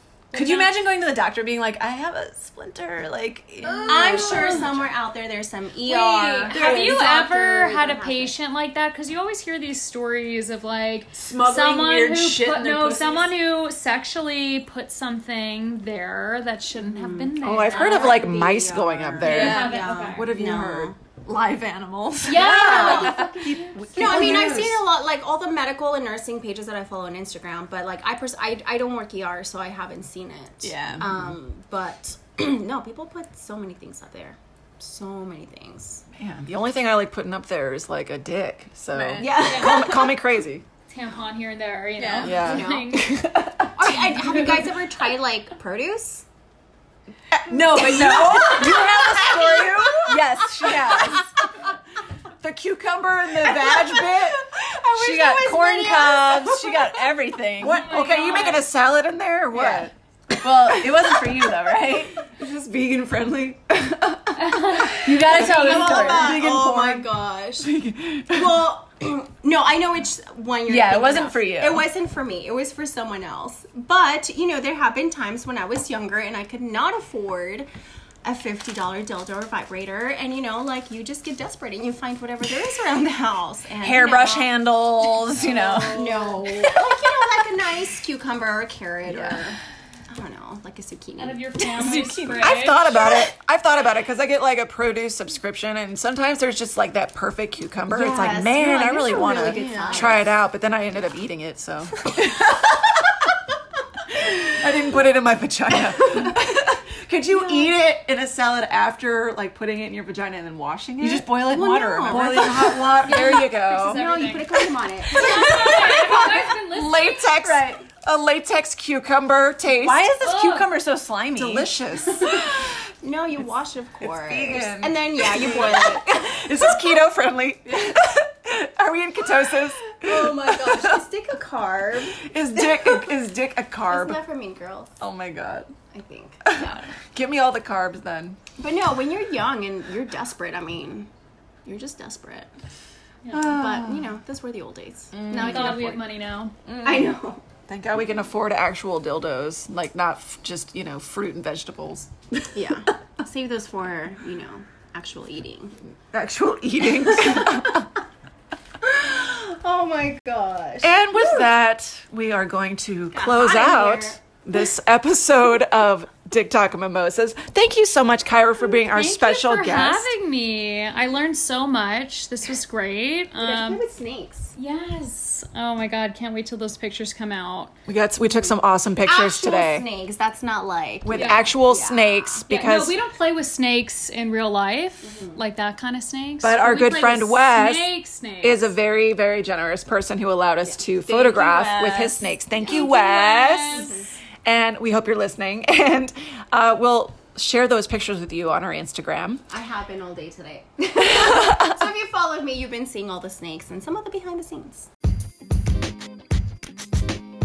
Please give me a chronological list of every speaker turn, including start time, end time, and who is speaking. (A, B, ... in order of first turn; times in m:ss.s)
0:00.3-0:00.7 A
0:00.3-0:04.8 B
0:03.6-0:04.7 A
0:03.8-0:08.4 C
0:05.8-0:18.3 A
0:06.5-0:07.1 B
0:11.2-0:13.3 B
0:16.8-0:21.0 C
0:17.4-0:20.9 D
0:19.2-0:19.9 B
0:19.2-0:20.3 A
0:21.2-0:23.3 B
0:22.3-0:24.2 A
0:22.3-0:23.3 C
0:22.4-0:24.8 D
0:23.9-0:36.0 C
0:30.6-0:31.1 B
0:31.0-0:31.3 D
0:36.2-0:40.6 D
0:38.9-0:39.6 B
0:39.2-0:40.2 C
0:39.4-0:39.9 A
0:40.9-0:43.4 A
0:42.0-0:42.4 B
0:42.2-0:44.6 D
0:42.2-0:46.2 C
0:47.3-0:50.2 D
0:47.5-0:51.3 B
0:47.7-0:50.1 C
0:50.6-0:51.0 C
0:52.4-0:54.4 D
0:53.7-0:56.9 C
0:54.9-0:57.9 B
0:57.6-0:59.9 D
0:57.6-0:58.7 A
0:59.6-0:59.8 C
1:00.4-1:02.2 B
1:00.6-1:01.3 D
1:02.2-1:05.1 D
1:04.4-1:06.1 A
1:05.0-1:06.9 B
1:05.3-1:07.7 C
1:06.1-1:07.1 D
1:07.6-1:08.6 D
1:08.3-1:17.7 C
1:10.7-1:11.9 B
1:18.2-1:24.5 C
1:23.8-1:26.5 B
1:25.4-1:29.6 C
1:25.4-1:26.2 A
1:29.1-1:29.4 B
1:30.1-1:32.1 C
1:31.2-1:33.0 A
1:31.7-1:32.6 B
1:31.9-1:43.0 D
1:37.9-1:40.3 C
1:39.3-1:40.2 B
1:44.1-1:51.3 D
1:51.0-1:52.7 B
1:51.5-1:55.9 C
1:52.1-1:54.0 D
1:53.0-1:54.6 A
1:55.1-1:57.4 A
1:55.2-2:00.1 D
1:57.3-1:57.8 B
1:59.8-2:01.7 B
2:00.2-2:00.7 A
2:01.4-2:02.7 D
2:02.1-2:02.5 C
2:03.0-2:06.8 C
2:04.0-2:11.0 D
2:09.9-2:13.1 C
2:12.2-2:14.2 D
2:13.9-2:14.9 C
2:15.0-2:15.7 D
2:15.9-2:16.8 C
2:16.4-2:18.4 D
2:18.6-2:21.1 C
2:21.6-2:22.5 C
2:23.3-2:25.8 C
2:23.3-2:24.1 D
2:25.1-2:26.0 D
2:25.3-2:26.6 A
2:26.7-2:32.5 D
2:26.8-2:27.4 C
2:32.5-2:35.8 C
2:36.1-2:37.9 D
2:37.0-2:37.8 C
2:38.8-2:41.5 C
2:40.8-2:50.1 D
2:43.1-2:44.2 C
2:48.8-2:53.8 A
2:53.4-2:54.5 C
2:54.6-2:57.7 A
2:57.9-2:59.9 D
2:59.0-3:02.4 C
3:01.0-3:03.0 D
3:01.1-3:01.4 A
3:02.5-3:08.7 A
3:05.0-3:05.4 C
3:06.4-3:07.9 D
3:08.4-3:19.4 D
3:11.0-3:12.3 B
3:12.6-3:12.9 C
3:12.7-3:14.0 A
3:13.7-3:14.1 C
3:19.5-3:24.9 C
3:21.2-3:21.7 D